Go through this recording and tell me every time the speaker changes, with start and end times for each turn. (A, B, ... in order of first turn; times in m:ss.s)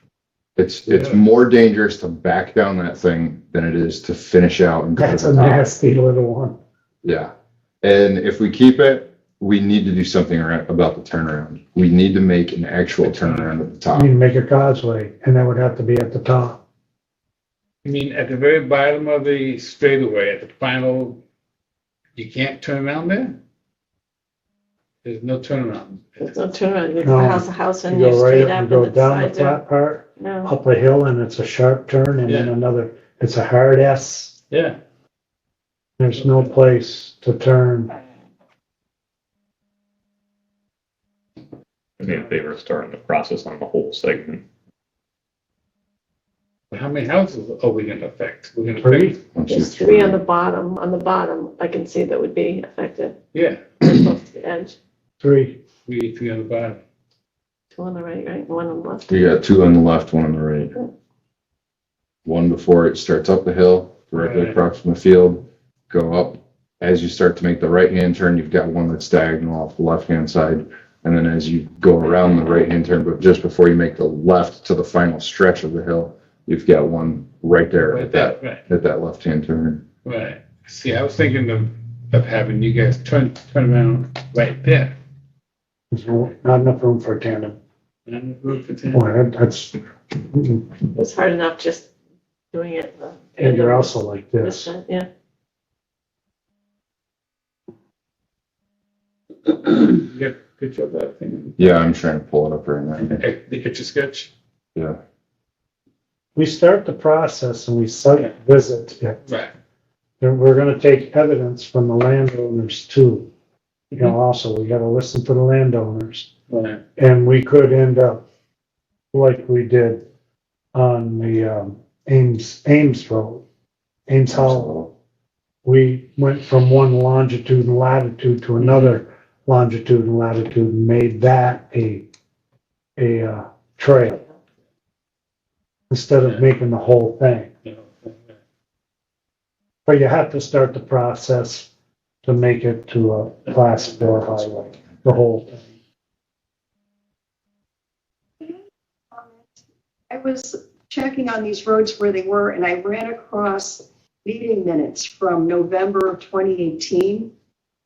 0:00.6-0:05.6 A
0:00.9-0:01.2 B
0:05.0-0:06.6 C
0:07.0-0:14.1 A
0:13.0-0:13.5 B
0:13.9-0:16.6 C
0:17.8-0:21.2 B
0:22.2-0:23.4 B
0:25.0-0:26.3 B
0:26.2-0:29.6 D
0:27.0-0:34.3 C
0:30.2-0:30.5 D
0:32.3-0:32.5 B
0:34.5-0:34.8 B
0:36.0-0:37.9 C
0:36.2-0:36.5 B
0:42.0-0:44.4 E
0:46.7-0:49.2 B
0:48.8-0:49.2 C
0:49.3-0:50.2 A
0:49.5-0:53.2 D
0:53.3-0:53.8 B
0:53.8-0:54.7 D
0:55.2-0:55.6 C
0:55.9-0:56.8 B
0:57.7-0:59.4 D
0:59.1-1:00.7 A
1:02.2-1:19.8 A
1:04.2-1:04.6 B
1:17.9-1:18.6 B
1:20.0-1:24.9 B
1:25.9-1:27.6 C
1:28.1-1:29.0 B
1:28.9-1:30.7 C
1:30.9-1:31.9 D
1:32.5-1:35.1 D
1:33.4-1:34.7 C
1:39.5-1:41.7 B
1:41.6-1:43.2 A
1:43.0-1:44.3 B
1:46.4-1:49.2 C
1:49.2-1:49.5 B
1:50.2-1:53.3 C
1:54.0-1:56.3 C
1:56.5-1:56.8 B
1:57.0-1:58.2 C
1:59.1-2:00.0 C
2:00.7-2:03.4 C
2:04.1-2:04.7 C
2:04.3-2:04.9 A
2:05.6-2:12.0 C
2:08.6-2:09.0 B
2:13.0-2:14.2 C
2:15.9-2:17.5 C
2:17.6-2:18.3 B
2:19.8-2:21.7 C
2:22.2-2:25.6 C
2:29.1-2:29.6 F
2:30.1-2:37.3 F